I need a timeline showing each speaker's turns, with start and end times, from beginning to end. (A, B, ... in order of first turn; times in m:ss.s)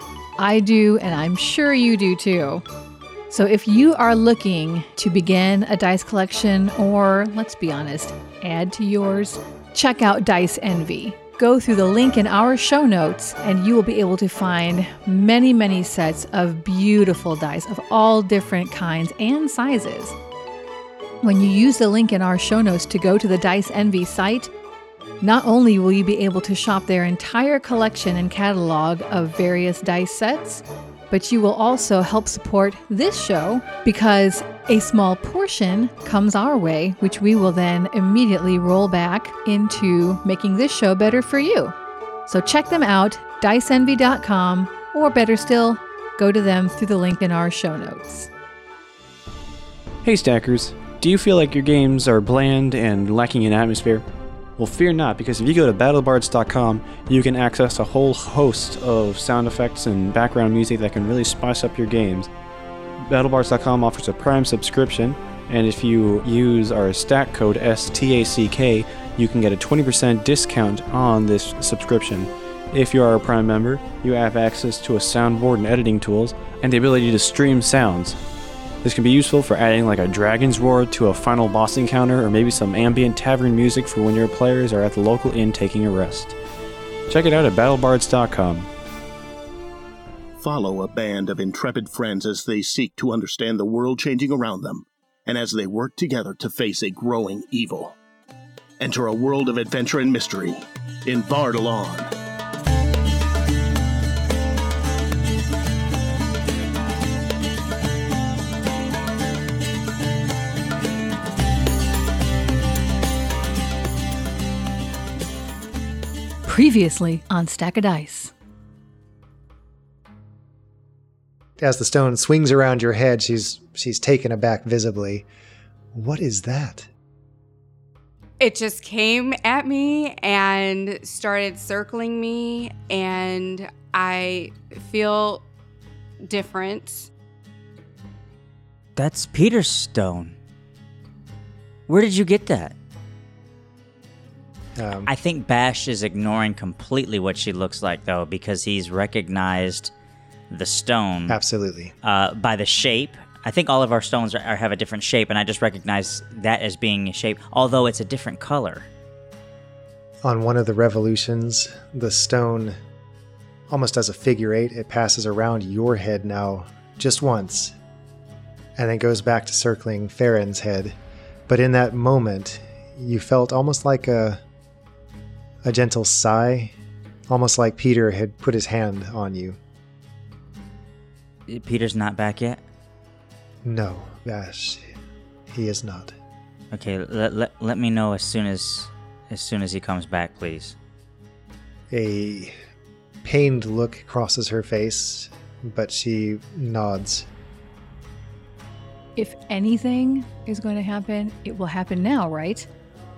0:00.4-0:02.6 A
0:03.3-0:20.2 A
0:21.2-0:24.5 A
0:25.2-0:41.8 A
0:42.3-0:48.3 A
0:50.0-0:54.0 B
0:54.6-1:02.3 B
1:03.1-1:18.2 B
1:18.8-1:26.4 B
1:27.1-1:28.7 B
1:30.4-1:38.0 C
1:38.8-1:42.1 C
1:56.4-1:58.3 A
2:01.6-2:05.3 D
2:05.9-2:06.9 D
2:08.4-2:15.5 E
2:16.2-2:17.1 E
2:19.0-2:20.4 F
2:21.9-2:22.8 F
2:24.8-2:25.1 D
2:25.1-2:29.9 F
2:30.5-2:31.4 F
2:31.3-2:31.9 D
2:32.0-2:38.9 F
2:40.2-2:42.8 D
2:43.7-2:47.8 D
2:48.8-2:51.0 D
2:51.5-2:54.4 D
2:55.6-2:56.7 D
2:57.3-2:59.6 D
3:01.5-3:02.6 F
3:03.6-3:04.9 D
3:05.5-3:06.2 D
3:06.7-3:10.8 F
3:11.9-3:12.6 D
3:13.2-3:17.3 D
3:19.2-3:22.7 A